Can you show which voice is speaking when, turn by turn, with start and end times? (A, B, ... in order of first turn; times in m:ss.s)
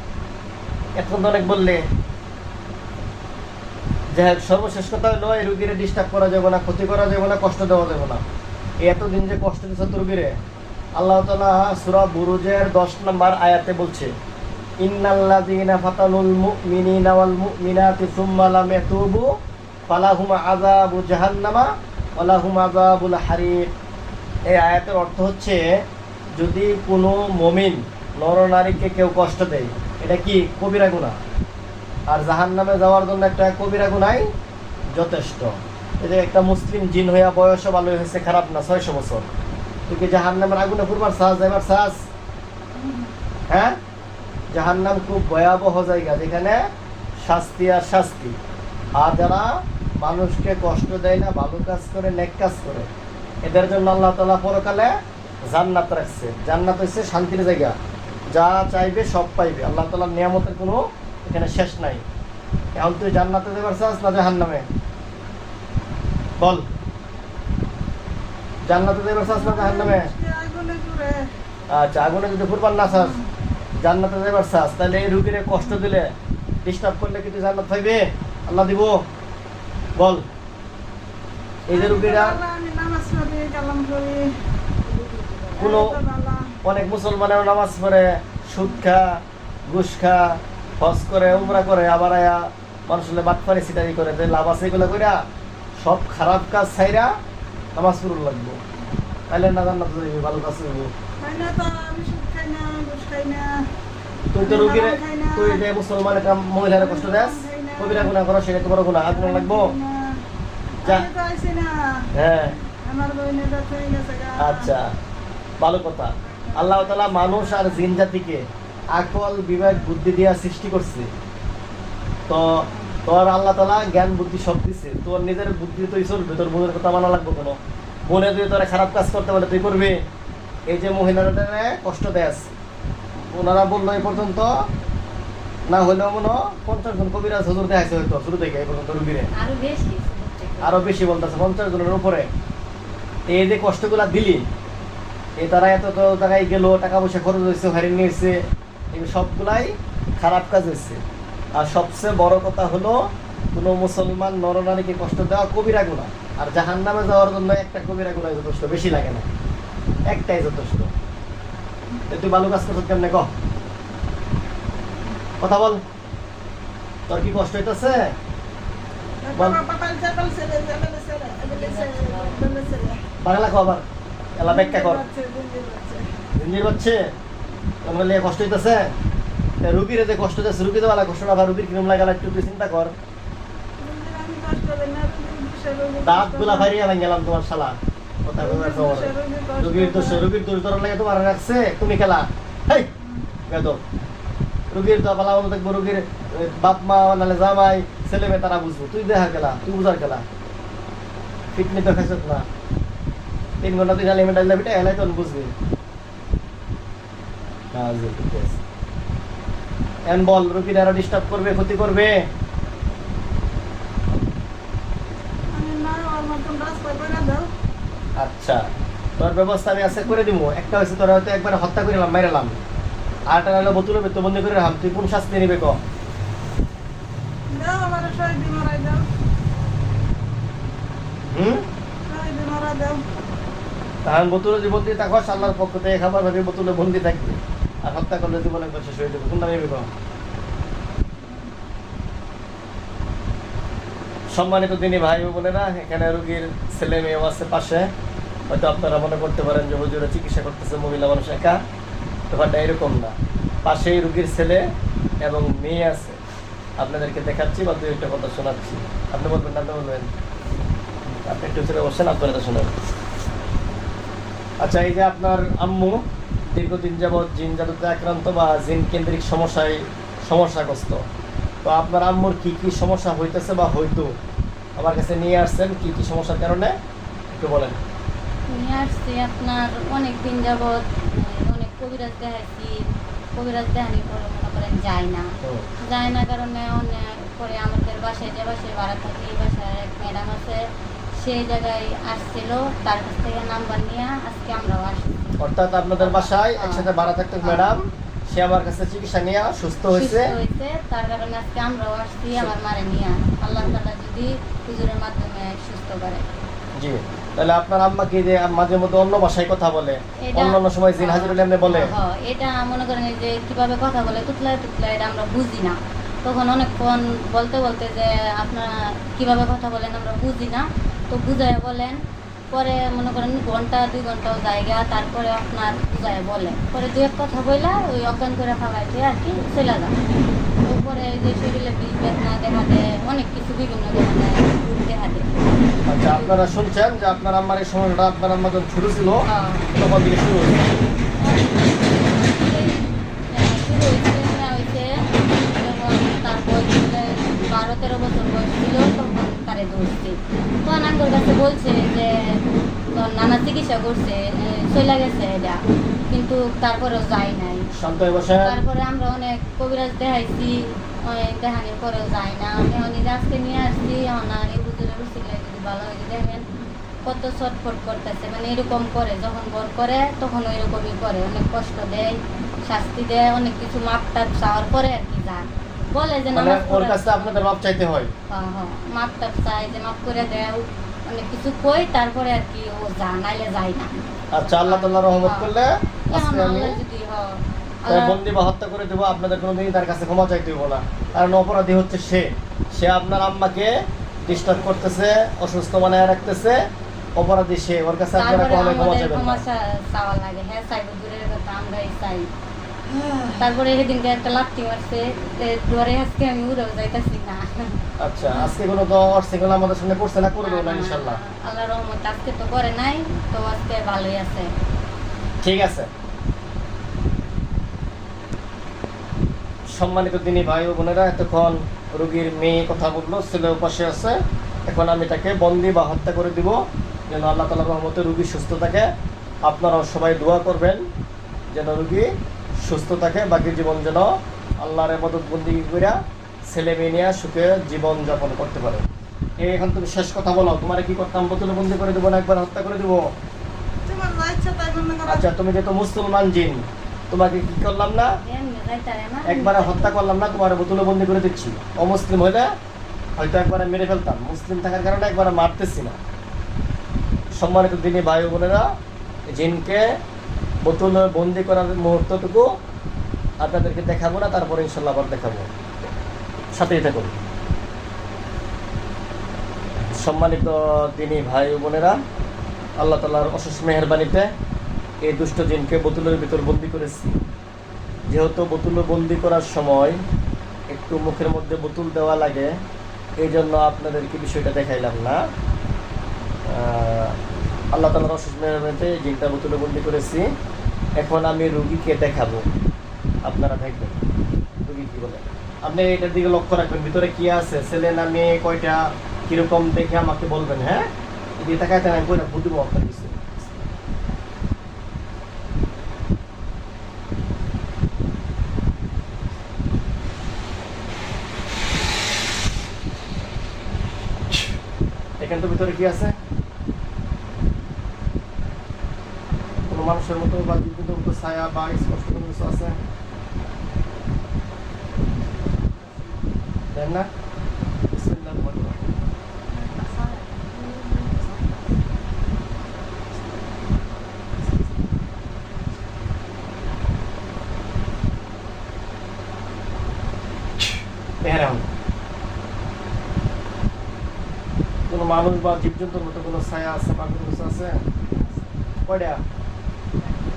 0:01.0-0:01.8 A
0:04.1-0:08.2 A
0:08.8-0:10.4 A
0:11.0-0:14.1 A
0:14.8-0:19.3 A
0:19.9-0:23.6 A
0:24.5-0:25.6 A
0:26.4-0:31.2 A
0:32.1-0:34.3 A
0:34.9-0:39.3 A
0:39.9-0:42.0 A
0:42.7-0:43.1 B
0:43.5-0:43.8 A
0:44.5-0:46.6 A
0:47.2-0:48.3 A
0:49.0-0:52.9 A
0:53.4-0:54.9 A
0:55.5-0:57.7 A
0:58.3-1:02.0 A
1:02.7-1:04.6 A
1:06.4-1:06.6 A
1:08.7-1:10.1 A
1:09.3-1:11.3 B
1:11.7-1:13.2 A
1:12.9-1:13.3 B
1:13.8-1:19.0 A
1:20.0-1:20.2 A
1:21.7-1:22.4 A
1:21.7-1:24.3 B
1:25.6-1:26.6 B
1:25.6-1:25.9 A
1:26.6-1:29.0 A
1:29.7-1:35.2 A
1:31.3-1:31.6 B
1:35.8-1:37.1 A
1:37.7-1:38.6 A
1:39.3-1:40.9 A
1:41.2-1:43.6 B
1:44.3-1:49.7 A
1:44.4-1:45.6 B
1:46.7-1:48.2 B
1:49.0-1:50.2 B
1:50.8-1:54.7 B
1:52.1-1:52.6 A
1:54.4-1:54.9 A
1:55.6-1:58.4 A
1:56.2-1:57.9 B
1:58.9-2:01.1 A
2:02.3-2:10.0 A
2:10.7-2:12.5 A
2:13.3-2:14.5 A
2:15.7-2:19.3 A
2:19.3-2:21.0 C
2:20.6-2:22.3 A
2:23.3-2:24.4 A
2:25.4-2:28.4 A
2:28.9-2:31.0 A
2:31.6-2:33.0 A
2:33.5-2:39.3 A
2:40.1-2:40.9 A
2:42.1-2:43.3 A
2:45.4-2:45.8 A
2:47.1-2:48.1 A
2:49.2-2:53.0 B
2:51.5-2:52.4 C
2:53.2-2:53.8 A
2:54.4-2:55.0 A
2:54.4-2:56.0 B
2:56.4-2:57.0 A
2:57.8-2:58.9 A
2:59.6-3:02.9 A
3:03.8-3:06.7 B
3:06.0-3:12.9 A
3:08.4-3:10.2 B
3:13.0-3:13.3 B
3:13.5-3:13.8 A
3:14.7-3:20.2 A
3:21.5-3:22.4 A
3:23.6-3:25.5 A
3:27.7-3:28.6 A
3:30.1-3:32.3 A
3:35.5-3:37.5 B
3:38.2-3:38.6 A
3:39.2-3:42.6 A
3:43.3-3:45.8 A
3:47.5-3:49.0 B
3:51.3-3:51.6 A
3:52.0-3:53.0 B
3:54.0-3:59.9 A
4:01.2-4:01.5 B
4:04.3-4:07.8 A
4:08.5-4:11.6 A
4:12.3-4:13.1 A
4:13.6-4:14.6 A
4:15.2-4:16.2 A
4:16.8-4:20.1 A
4:21.1-4:22.7 A
4:24.6-4:31.0 A
4:31.6-4:34.1 A
4:34.8-4:36.7 A
4:37.3-4:37.8 A
4:38.5-4:42.8 C
4:43.4-4:50.6 C
4:51.2-4:55.3 C
4:55.4-5:00.3 A
4:56.0-4:56.9 C
4:57.4-4:57.7 C
4:59.9-5:06.2 C
5:06.8-5:11.9 A
5:10.2-5:22.0 C
5:22.5-5:29.9 C
5:30.6-5:36.4 C
5:35.9-5:39.2 A
5:39.3-5:39.7 C
5:39.7-5:40.7 A
5:41.2-5:52.1 C
5:52.9-5:57.7 C
5:57.8-5:58.6 A
5:58.3-6:00.5 C
6:01.1-6:06.4 C
6:07.0-6:12.2 C
6:12.7-6:17.4 C
6:16.3-6:18.1 A
6:18.3-6:25.5 C
6:24.3-6:26.8 A
6:26.1-6:27.3 C
6:27.8-6:28.2 C
6:27.9-6:33.7 A
6:34.2-6:36.6 A
6:37.2-6:39.4 A
6:38.2-6:42.3 C
6:42.9-6:43.4 B
6:43.4-6:47.5 C
6:48.0-6:51.2 A
6:50.4-6:54.5 C
6:55.4-6:55.9 A
6:59.7-7:04.2 A
7:04.7-7:06.6 A
7:07.1-7:08.9 A
7:09.4-7:10.8 A
7:11.5-7:12.1 A
7:12.6-7:14.1 A
7:14.6-7:16.0 A
7:16.5-7:18.8 A
7:19.4-7:23.0 A
7:23.8-7:25.2 B
7:25.1-7:28.1 A
7:28.2-7:30.0 C
7:29.3-7:32.5 A
7:33.2-7:36.0 A
7:37.4-7:38.6 A
7:39.3-7:39.8 A
7:40.6-7:42.5 A
7:43.4-7:45.5 A
7:46.5-7:47.1 A
7:49.9-7:52.0 A
7:52.8-7:54.3 A
7:55.0-7:57.2 A
7:58.1-8:00.0 A
8:00.7-8:02.5 A
8:03.2-8:05.2 A
8:06.5-8:07.2 A
8:07.7-8:10.2 A
8:11.0-8:12.4 A
8:13.2-8:14.0 A
8:14.6-8:20.8 A
8:21.4-8:23.4 A
8:35.2-8:36.1 A
8:39.7-8:42.8 A
8:45.1-8:46.0 B
8:46.7-8:47.1 A
8:47.9-8:48.8 A
8:49.5-8:52.0 B
8:53.1-8:55.0 B
9:01.2-9:01.6 A
9:04.9-9:07.8 A
9:08.1-9:08.5 B
9:08.8-9:09.2 A